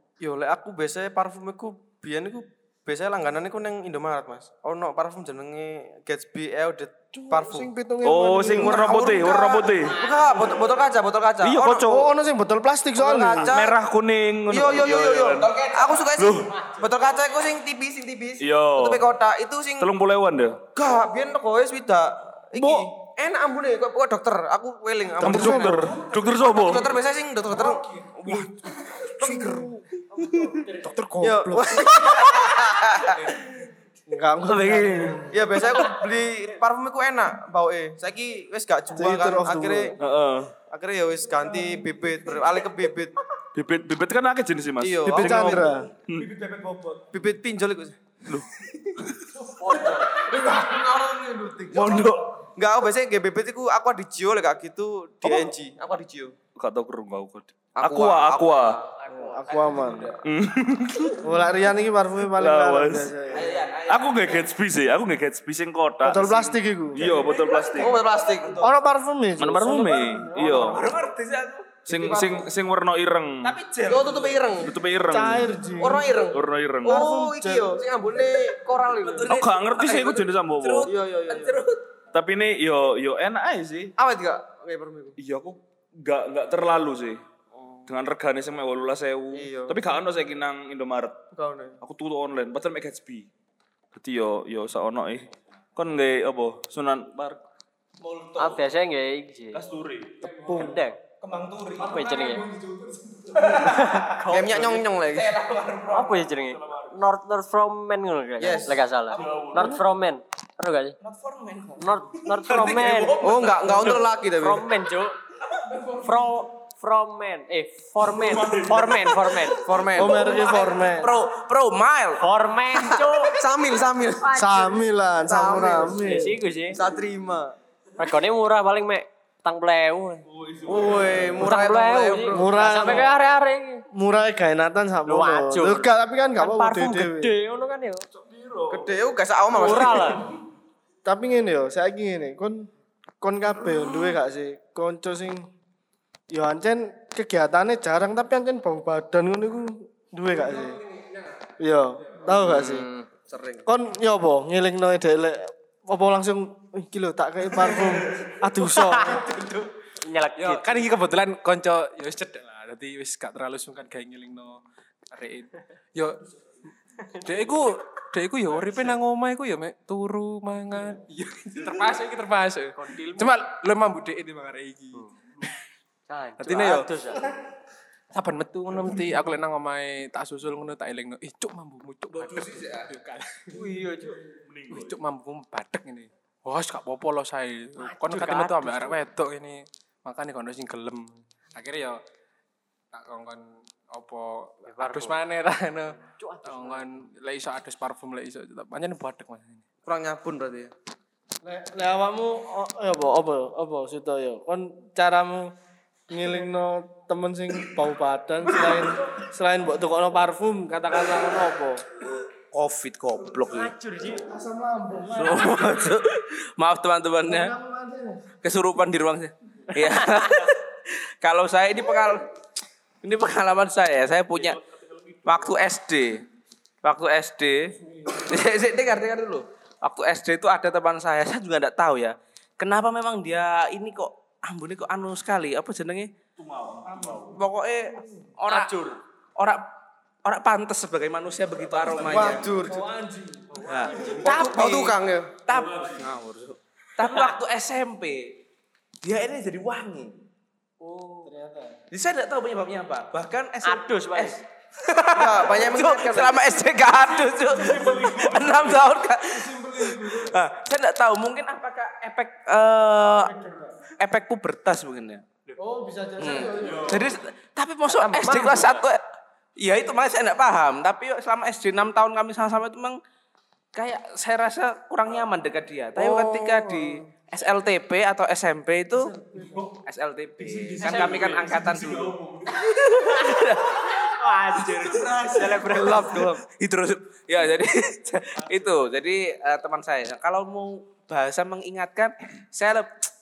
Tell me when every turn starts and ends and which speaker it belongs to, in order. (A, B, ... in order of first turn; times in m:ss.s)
0:00.2-0:07.7 A
0:07.1-0:09.0 B
0:08.0-0:10.0 C
0:08.5-0:11.9 A
0:11.4-0:12.1 C
0:11.8-0:13.6 B
0:13.0-0:13.8 A
0:13.4-0:15.5 C
0:14.5-0:19.9 A
0:14.8-0:16.8 D
0:16.2-0:16.5 C
0:18.4-0:19.1 C
0:19.8-0:20.6 C
0:20.8-0:28.5 A
0:22.6-0:22.9 C
0:25.2-0:26.9 C
0:25.2-0:25.7 B
0:29.0-0:29.8 A
0:29.2-0:29.7 B
0:30.2-0:30.8 E
0:30.7-0:31.9 B
0:31.2-0:33.6 A
0:34.1-0:35.4 B
0:34.7-0:35.2 D
0:35.3-0:40.0 A
0:38.9-0:40.0 B
0:40.0-0:40.5 C
0:40.7-0:43.2 A
0:43.5-0:46.5 C
0:44.8-0:45.7 A
0:45.0-0:45.9 B
0:46.4-0:47.0 D
0:47.1-0:48.0 A
0:48.3-0:49.3 C
0:49.5-0:56.4 A
0:51.7-0:52.3 C
0:56.6-0:58.8 C
0:57.8-0:58.8 D
0:59.0-1:00.1 E
0:59.1-1:00.2 B
0:59.6-1:00.0 D
1:00.2-1:01.3 C
1:01.2-1:03.6 B
1:02.3-1:03.2 C
1:03.3-1:04.4 D
1:03.9-1:08.0 C
1:06.0-1:07.1 B
1:07.0-1:08.7 D
1:07.7-1:08.7 A
1:08.6-1:10.8 B
1:09.4-1:10.9 C
1:10.5-1:12.2 D
1:11.9-1:13.5 C
1:11.9-1:12.5 A
1:13.4-1:14.5 D
1:13.9-1:14.8 A
1:14.7-1:15.5 C
1:15.1-1:16.2 B
1:15.8-1:19.4 A
1:16.3-1:17.0 C
1:16.8-1:17.8 B
1:18.3-1:21.8 D
1:19.3-1:20.9 C
1:20.9-1:21.6 A
1:22.1-1:23.9 C
1:24.0-1:25.2 A
1:25.2-1:27.2 C
1:27.5-1:27.9 A
1:27.9-1:31.2 C
1:29.3-1:29.8 A
1:31.3-1:31.8 A
1:31.8-1:33.3 C
1:33.9-1:37.4 C
1:38.0-1:38.6 D
1:38.4-1:39.6 E
1:39.5-1:40.2 C
1:40.3-1:40.8 B
1:40.5-1:41.0 E
1:41.2-1:46.7 D
1:41.8-1:42.4 E
1:43.5-1:44.6 E
1:44.2-1:45.3 A
1:45.9-1:51.0 E
1:48.4-1:48.8 A
1:49.1-1:49.5 D
1:49.2-1:49.8 C
1:51.0-1:54.1 D
1:51.8-1:55.2 E
1:53.2-1:54.7 A
1:55.5-1:56.0 D
1:56.0-1:59.7 E
1:58.0-1:59.5 C
1:59.5-2:00.7 A
1:59.9-2:01.1 B
2:00.0-2:02.2 D
2:02.2-2:03.4 E
2:02.8-2:07.6 A
2:04.3-2:04.5 E
2:04.3-2:06.4 B
2:06.0-2:06.8 E
2:08.0-2:10.2 E
2:10.3-2:11.5 C
2:10.7-2:13.0 A
2:11.4-2:13.8 E
2:12.3-2:13.1 B
2:13.9-2:17.3 B
2:15.1-2:18.1 E
2:18.2-2:18.9 C
2:18.7-2:20.2 A
2:19.5-2:20.2 E
2:21.0-2:22.7 B
2:23.2-2:25.5 B
2:26.3-2:30.8 B
2:30.3-2:31.4 F
2:31.6-2:32.9 B
2:32.3-2:33.1 E
2:33.3-2:33.6 A
2:33.6-2:39.3 B
2:38.6-2:39.2 E
2:40.0-2:40.8 E
2:40.4-2:46.2 F
2:47.2-2:55.5 F
2:52.8-2:53.3 E
2:56.1-2:57.2 E
2:56.4-2:56.9 F
2:58.1-3:03.6 F
3:02.1-3:02.9 D
3:03.5-3:04.2 E
3:04.5-3:05.0 C
3:04.7-3:12.0 F
3:07.8-3:09.0 E
3:12.9-3:19.6 F
3:14.7-3:15.2 E
3:16.1-3:16.8 E
3:19.8-3:20.7 A
3:21.4-3:25.5 B
3:26.1-3:31.8 B
3:32.5-3:33.7 D
3:33.5-3:34.3 E
3:34.0-3:36.0 B
3:35.1-3:37.5 D
3:37.3-3:38.2 B
3:38.4-3:42.3 D
3:43.0-3:44.6 D
3:44.4-3:45.4 C
3:45.2-3:46.2 D
3:46.8-3:56.1 D
3:47.8-3:48.5 B
3:56.4-3:57.4 C
3:56.9-3:57.3 B
3:57.3-3:59.7 D
3:58.5-3:58.8 E
4:00.2-4:02.5 D
4:01.8-4:02.3 C
4:02.0-4:02.9 A
4:02.6-4:04.3 B
4:03.6-4:08.4 D
4:04.2-4:05.4 A
4:05.5-4:06.1 C
4:07.0-4:07.3 E
4:09.0-4:10.2 D
4:10.8-4:11.3 E
4:11.2-4:11.8 B
4:11.9-4:23.3 D
4:13.6-4:14.4 E
4:15.1-4:16.6 A
4:17.7-4:18.6 C
4:19.2-4:20.4 B
4:23.1-4:23.9 B
4:24.0-4:25.2 D
4:25.6-4:27.2 B
4:26.2-4:29.0 D
4:28.1-4:28.6 E
4:29.6-4:33.0 D
4:33.8-4:53.1 D
4:36.0-4:37.0 B
4:39.0-4:39.7 B
4:40.4-4:42.6 C
4:43.1-4:43.4 E
4:44.2-4:44.9 E
4:45.5-4:46.4 A